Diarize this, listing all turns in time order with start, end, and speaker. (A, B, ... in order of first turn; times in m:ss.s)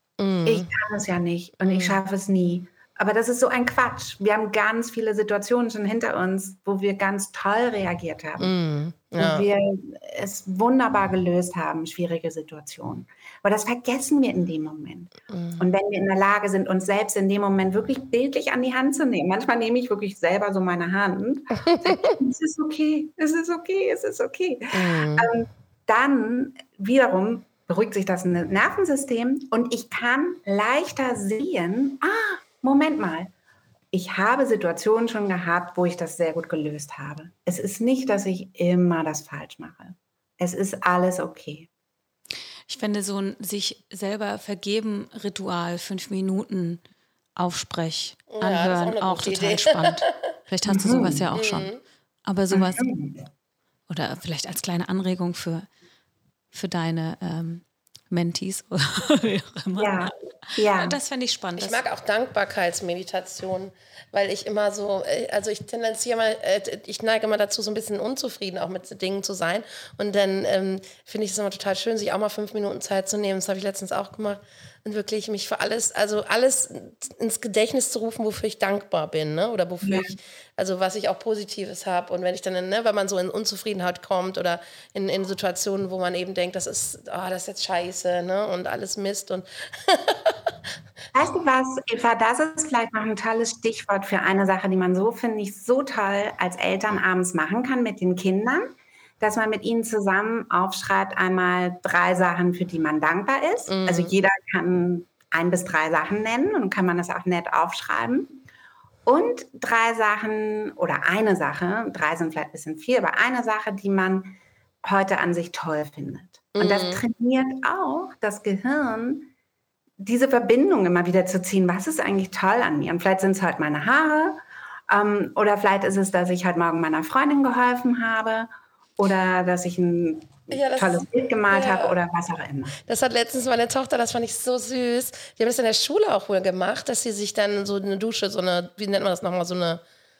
0:00.2-0:00.7 A
0:00.4-0:08.5 B
0:01.6-0:02.0 A
0:08.4-0:09.5 A
0:09.2-0:33.3 B
0:15.3-0:15.6 A
0:21.6-0:22.1 A
0:24.7-0:25.3 A
0:33.9-0:41.7 B
0:42.7-0:46.8 C
0:47.4-0:51.7 C
0:48.3-0:50.1 A
0:50.7-0:51.2 B
0:51.3-0:51.8 A
0:52.2-0:52.9 C
0:52.5-0:53.2 B
0:53.9-0:55.7 C
0:56.5-1:01.8 C
0:59.8-1:01.0 B
1:01.6-1:30.6 A
1:19.8-1:20.2 B
1:31.1-1:48.4 B
1:43.7-1:44.1 A
1:49.0-1:59.3 B
1:56.5-1:57.0 A
2:00.0-2:12.8 B
2:10.5-2:12.0 A
2:12.8-2:19.8 A